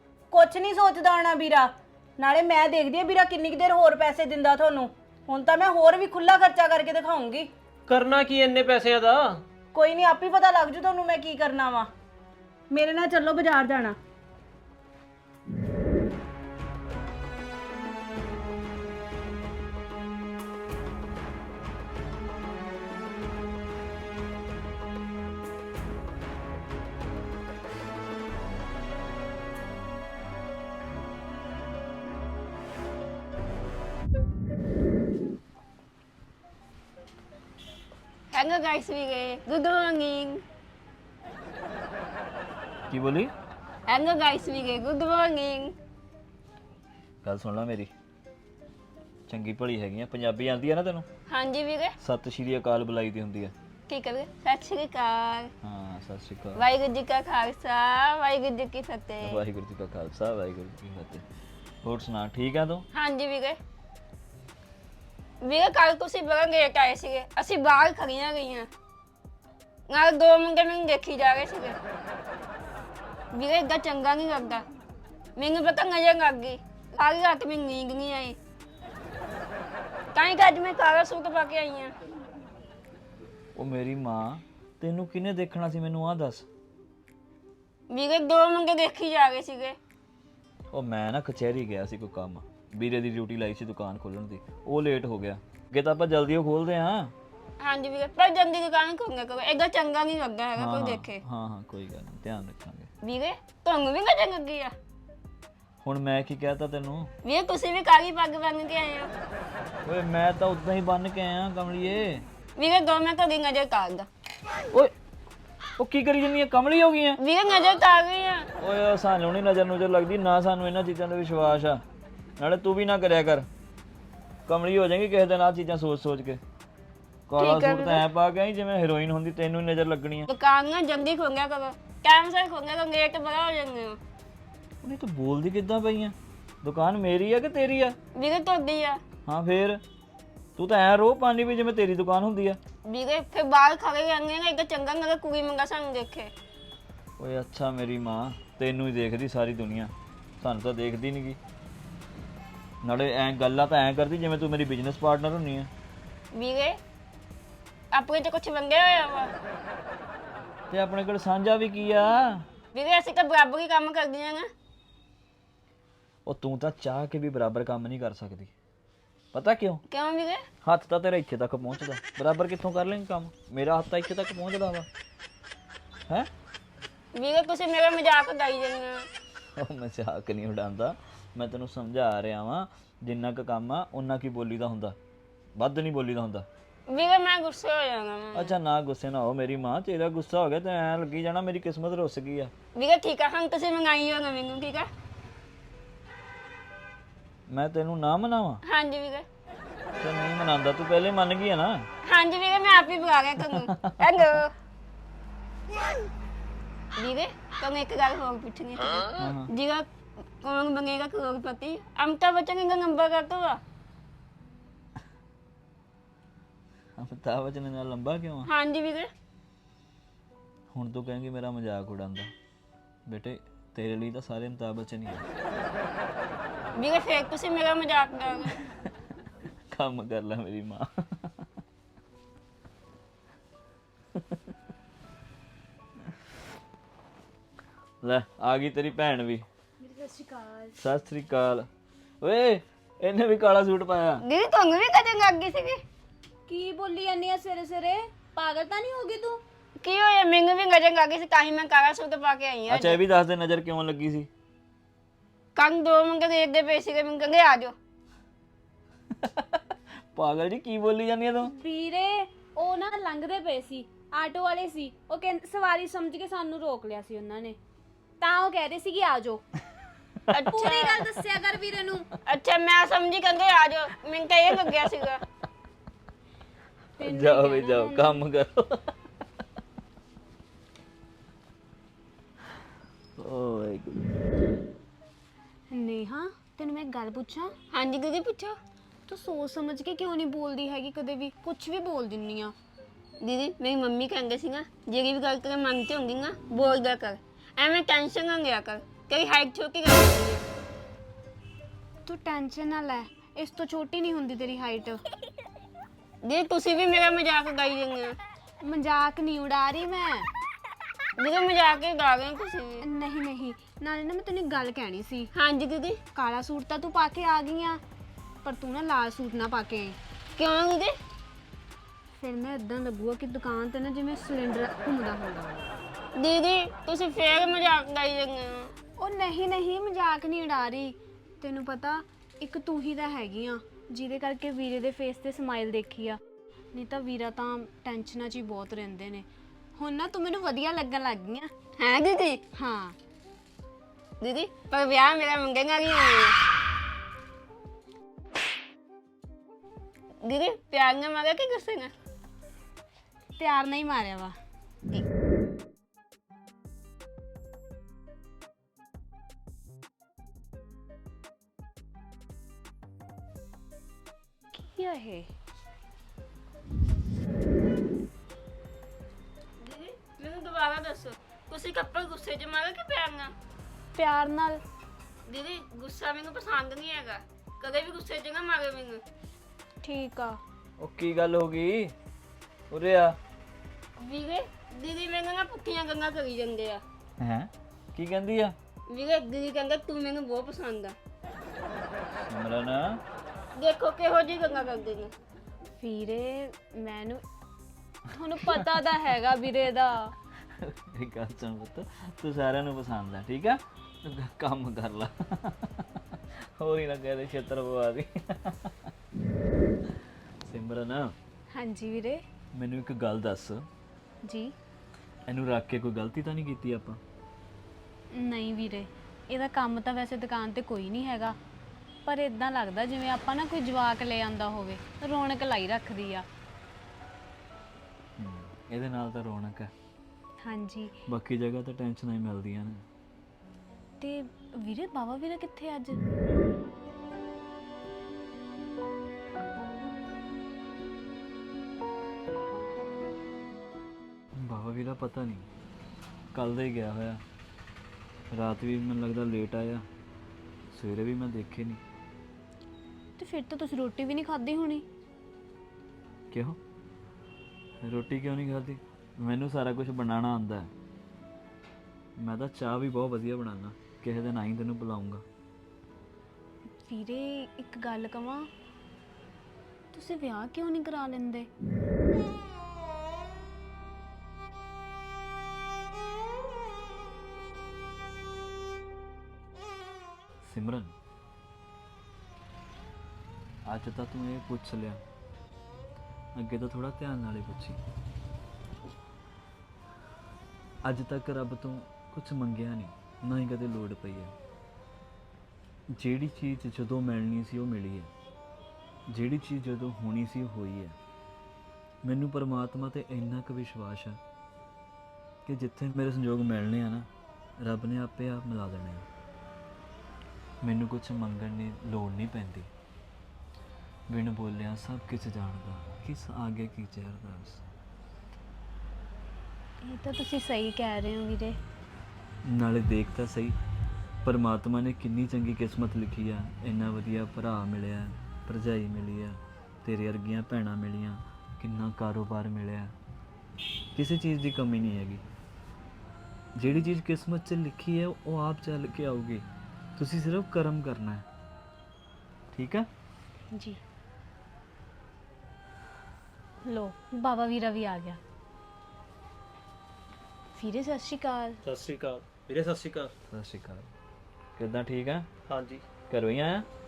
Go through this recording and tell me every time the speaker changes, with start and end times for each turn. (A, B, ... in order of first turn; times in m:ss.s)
0:00.3-0:07.5 A
0:07.9-0:09.4 B
0:09.7-0:11.9 A
0:12.7-0:14.0 A
0:38.3-0:40.4 C
0:42.9-0:43.3 D
0:43.9-0:45.7 C
0:47.2-0:47.9 D
0:49.3-0:51.1 D
0:51.3-0:52.0 C
0:52.0-0:53.5 D
0:53.9-0:55.5 C
0:55.6-0:56.6 D
0:56.6-0:59.4 C
0:59.2-1:01.2 D
1:01.8-1:02.9 D
1:02.9-1:03.6 C
1:05.4-1:08.7 C
1:09.9-1:11.8 C
1:13.3-1:14.6 C
1:15.4-1:18.4 C
1:20.2-1:21.9 C
1:23.6-1:26.5 D
1:27.9-1:29.8 C
1:30.7-1:37.1 D
1:37.6-1:41.2 C
1:40.6-1:42.9 D
1:43.0-1:44.7 C
1:45.8-1:47.1 D
1:47.2-1:49.1 C
1:49.8-1:52.3 D
1:52.6-1:54.1 C
1:55.8-1:57.2 D
1:57.2-1:58.5 C
1:58.6-2:01.8 D
2:02.4-2:03.5 D
2:04.5-2:06.4 D
2:07.3-2:10.3 D
2:07.4-2:08.0 C
2:10.3-2:14.0 C
2:14.8-2:18.0 D
2:18.1-2:19.0 C
2:19.3-2:19.8 D
2:20.6-2:22.6 D
2:22.8-2:26.3 C
2:27.2-2:31.4 D
2:32.8-2:35.7 D
2:36.3-2:36.8 C
2:37.9-2:39.3 C
2:40.7-2:42.5 D
2:42.7-2:44.5 C
2:46.3-2:48.5 D
2:49.3-2:49.8 D
2:49.9-2:50.4 C
2:50.6-2:54.9 D
2:57.1-2:59.1 C
2:59.6-3:05.0 D
3:05.6-3:06.5 D
3:06.9-3:08.6 C
3:08.3-3:12.5 D
3:12.8-3:14.9 C
3:17.5-3:18.6 D
3:18.6-3:19.2 C
3:20.0-3:21.9 D
3:22.0-3:24.5 C
3:23.5-3:24.4 D
3:27.0-3:29.8 C
3:29.2-3:29.5 D
3:30.4-3:33.6 C
3:37.0-3:38.5 D
3:38.5-3:39.1 C
3:40.7-3:42.3 D
3:43.1-3:45.3 D
3:46.8-3:48.6 C
3:49.7-3:51.5 D
3:58.0-3:59.5 D
3:59.8-4:00.8 E
4:00.8-4:01.7 D
4:02.2-4:04.2 D
4:04.2-4:05.8 C
4:06.5-4:09.4 E
4:09.8-4:13.0 C
4:12.7-4:14.3 D
4:15.6-4:17.7 C
4:19.2-4:21.5 D
4:21.4-4:27.6 E
4:28.2-4:29.4 E
4:30.3-4:31.0 C
4:30.5-4:32.1 E
4:32.2-4:35.2 C
4:37.0-4:38.2 E
4:37.0-4:38.9 D
4:43.2-4:44.2 D
4:45.7-4:47.6 E
4:47.7-4:48.6 C
4:49.1-4:52.5 E
4:53.2-5:00.4 C
5:02.1-5:05.0 E
5:06.2-5:08.2 C
5:08.6-5:10.3 E
5:11.2-5:12.8 C
5:12.8-5:15.3 E
5:15.3-5:16.0 C
5:16.1-5:17.8 E
5:18.4-5:20.0 E
5:20.4-5:21.0 C
5:22.2-5:25.7 E
5:26.2-5:28.7 C
5:29.0-5:36.2 E
5:36.7-5:41.5 E
5:41.8-5:42.4 C
5:42.5-5:43.0 E
5:44.2-5:46.4 C
5:50.2-5:51.9 C
5:53.4-5:54.4 E
6:04.6-6:05.3 E
6:09.6-6:13.3 C
6:14.0-6:14.6 E
6:15.3-6:19.0 C
6:19.8-6:20.4 E
6:20.8-6:21.9 D
6:22.7-6:23.2 D
6:24.0-6:26.8 C
6:27.2-6:28.6 D
6:28.9-6:31.0 C
6:32.1-6:33.0 D
6:33.6-6:35.1 C
6:35.8-6:37.2 E
6:38.1-6:40.1 E
6:38.4-6:38.6 D
6:40.4-6:48.9 D
6:50.4-6:51.2 D
6:51.5-6:52.2 E
6:52.6-6:53.7 D
6:54.2-6:54.5 E
6:55.3-6:57.0 D
6:58.1-7:01.4 E
7:02.1-7:06.3 E
7:08.2-7:09.7 D
7:10.4-7:10.9 E
7:11.1-7:12.8 D
7:14.0-7:16.0 E
7:24.4-7:25.5 D
7:26.3-7:27.2 D
7:28.3-7:29.8 D
7:30.7-7:31.8 D
7:33.2-7:34.8 E
7:36.3-7:36.6 D
7:37.8-7:40.7 D
7:42.2-7:45.2 D
7:46.9-7:48.5 E
7:49.9-7:51.5 E
8:00.4-8:01.0 D
8:03.7-8:05.0 D
8:06.4-8:07.8 D
8:10.8-8:14.4 D
8:15.9-8:18.1 D
8:19.1-8:21.0 D
8:22.0-8:24.2 D
8:25.4-8:29.1 D
8:30.6-8:32.7 D
8:34.1-8:37.6 D
8:39.8-8:41.6 E
8:42.4-8:43.6 D
8:44.2-8:53.0 D
8:54.0-8:55.2 D
8:56.6-9:01.3 D
9:02.5-9:02.9 D
9:03.5-9:03.8 E
9:06.6-9:08.2 E
9:10.6-9:11.6 E
9:11.6-9:13.1 B
9:13.3-9:14.0 D
9:14.6-9:15.3 D
9:15.5-9:15.8 B
9:16.1-9:16.7 D